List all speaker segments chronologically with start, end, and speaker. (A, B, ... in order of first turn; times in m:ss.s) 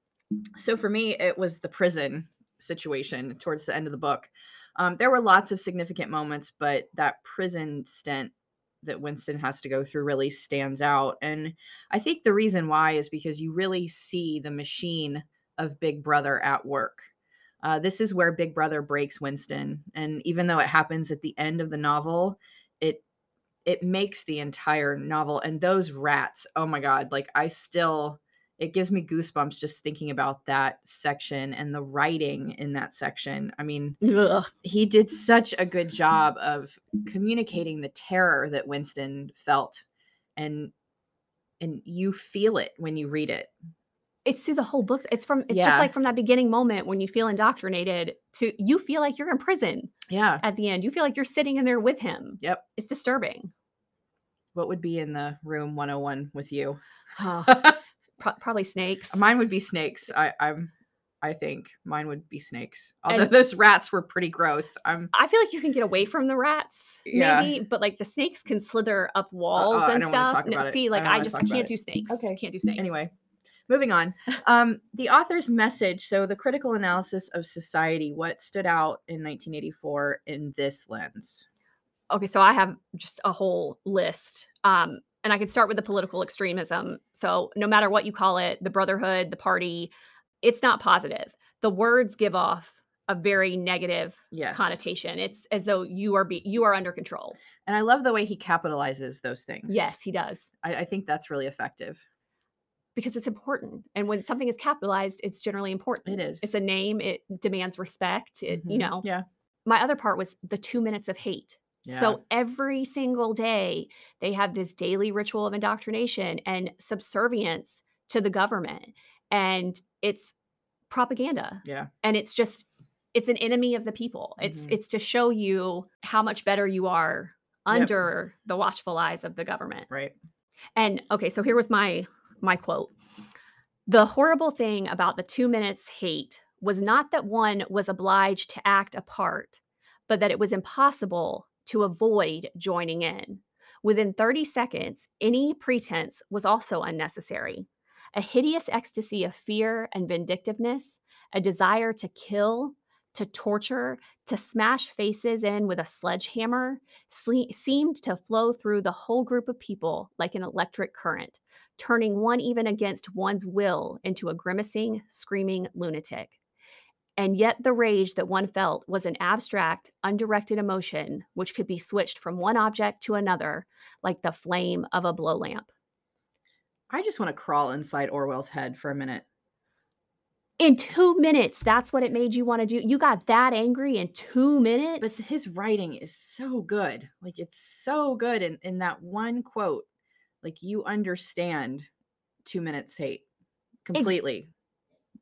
0:00.6-0:17.1 A
0:17.6-0:23.0 A
0:23.6-0:34.0 A
0:34.0-0:34.5 B
0:34.6-0:39.8 A
0:40.4-0:40.7 A
0:41.6-0:43.5 A
0:44.2-0:53.5 B
0:45.5-0:45.9 A
0:50.1-0:50.4 A
0:54.5-0:56.8 A
0:57.2-0:59.2 B
0:57.4-0:57.8 A
0:59.1-1:05.1 A
1:03.1-1:03.3 B
1:05.1-1:12.9 B
1:07.0-1:07.5 A
1:09.5-1:13.1 A
1:13.7-1:21.4 A
1:22.1-1:37.4 B
1:34.3-1:34.8 A
1:37.6-1:39.9 A
1:39.7-1:40.5 B
1:40.6-1:42.0 A
1:42.9-1:49.1 B
1:46.0-1:46.5 A
1:48.5-1:49.2 A
1:49.6-2:00.3 B
1:51.8-1:52.2 A
2:00.9-2:09.9 B
2:04.4-2:04.7 A
2:09.9-2:10.2 A
2:10.8-2:12.9 B
2:13.9-2:46.4 B
2:47.2-2:55.7 B
2:56.9-2:59.2 A
3:00.6-3:05.2 B
3:05.0-3:09.8 A
3:10.4-3:11.9 A
3:12.4-3:13.2 A
3:13.8-3:14.5 A